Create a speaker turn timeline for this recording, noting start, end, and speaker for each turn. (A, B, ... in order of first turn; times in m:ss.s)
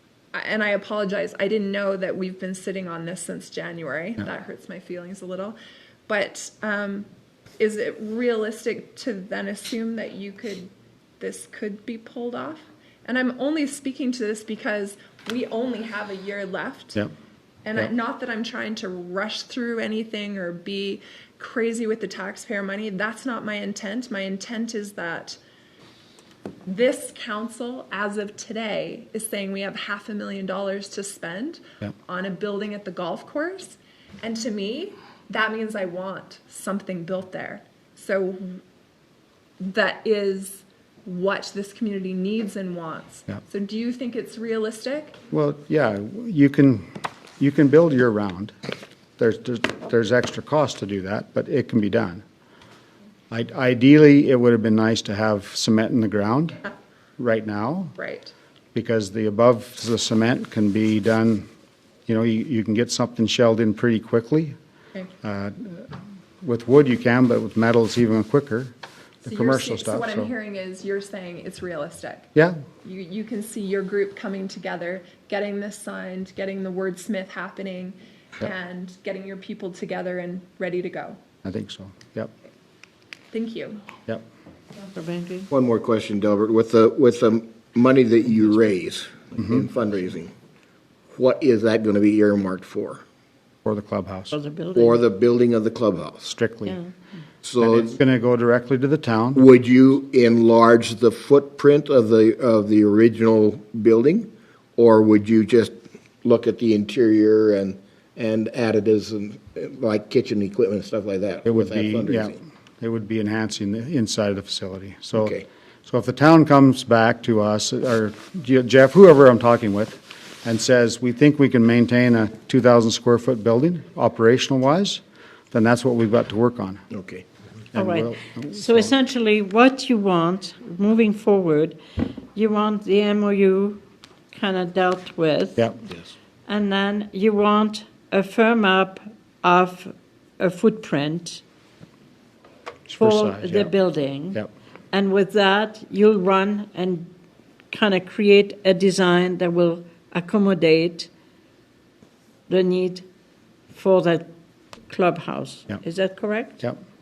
0:00.3-0:17.0 A
0:17.6-0:25.4 A
0:26.6-0:38.6 A
0:39.6-0:45.2 A
0:45.3-0:46.9 B
0:47.4-0:48.5 B
0:49.2-0:52.2 B
0:53.3-0:56.6 B
0:57.2-0:57.9 B
0:58.0-0:58.3 A
0:58.7-1:01.4 B
1:02.1-1:04.5 B
1:05.2-1:05.9 B
1:06.4-1:10.3 B
1:09.2-1:12.3 A
1:12.8-1:21.2 A
1:21.4-1:22.3 B
1:23.3-1:23.8 A
1:24.9-1:25.5 C
1:25.5-1:30.3 D
1:29.4-1:29.6 B
1:31.1-1:33.0 D
1:33.6-1:34.3 B
1:34.3-1:35.0 C
1:34.7-1:36.3 D
1:36.2-1:36.8 B
1:36.6-1:36.9 C
1:37.4-1:37.9 D
1:37.6-1:39.4 B
1:39.3-1:52.4 D
1:51.4-2:06.8 B
1:55.2-1:55.4 D
2:06.9-2:07.2 D
2:07.7-2:08.9 B
2:07.7-2:11.8 C
2:12.3-2:13.8 C
2:14.3-2:15.7 C
2:16.5-2:21.4 C
2:22.9-2:23.8 B
2:23.0-2:24.4 C
2:24.9-2:27.1 C
2:27.7-2:31.1 C
2:32.5-2:33.0 C
2:33.7-2:34.3 C
2:34.9-2:36.7 C